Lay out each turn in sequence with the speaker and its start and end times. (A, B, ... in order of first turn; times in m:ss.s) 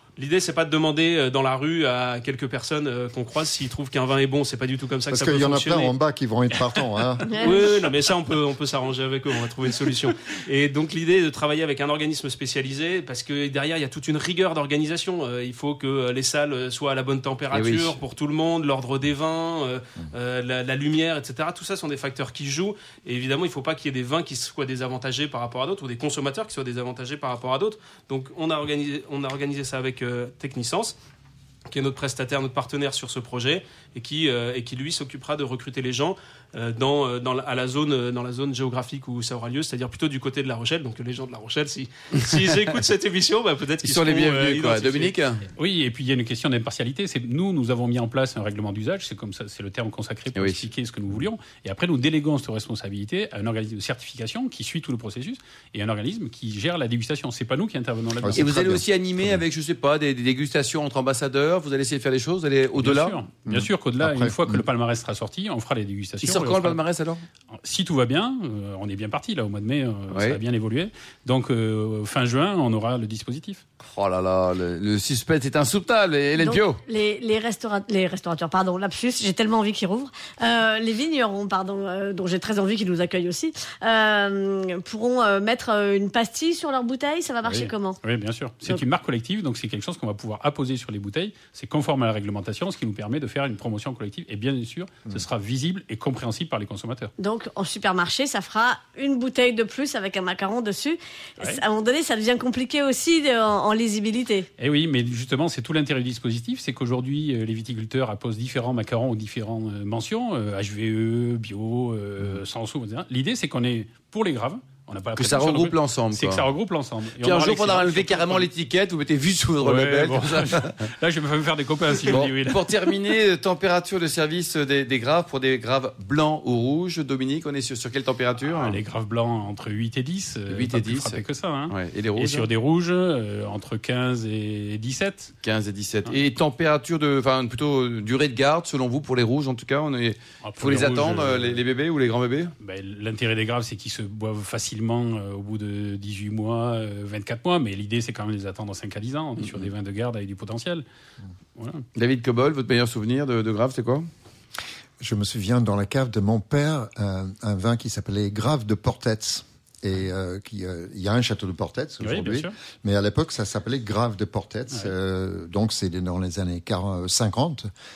0:00.2-0:06.0 A
0:05.1-0:07.6 B
0:07.3-0:07.7 C
0:07.3-0:31.0 A
0:17.5-0:18.0 D
0:31.7-0:45.2 A
0:42.2-0:42.7 D
0:43.8-0:45.5 D
0:45.6-0:58.5 E
0:50.4-0:50.6 D
0:58.2-0:59.4 B
0:58.3-1:03.2 D
1:02.8-1:06.8 E
1:03.4-1:04.6 B
1:06.2-1:07.2 D
1:07.6-1:13.6 E
1:10.1-1:10.4 D
1:13.8-1:16.8 D
1:16.4-1:28.0 C
1:27.4-1:37.1 E
1:37.2-1:44.5 C
1:44.6-1:58.5 E
1:55.2-1:56.5 D
1:57.2-2:00.9 D
1:59.6-2:02.7 E
2:02.0-2:08.8 D
2:08.5-2:15.3 E
2:10.5-2:12.5 D
2:15.4-2:22.5 D
2:20.4-2:21.6 E
2:22.6-2:30.8 E
2:31.6-2:31.8 E
2:32.0-2:34.1 D
2:35.0-2:47.7 B
2:42.0-2:42.5 E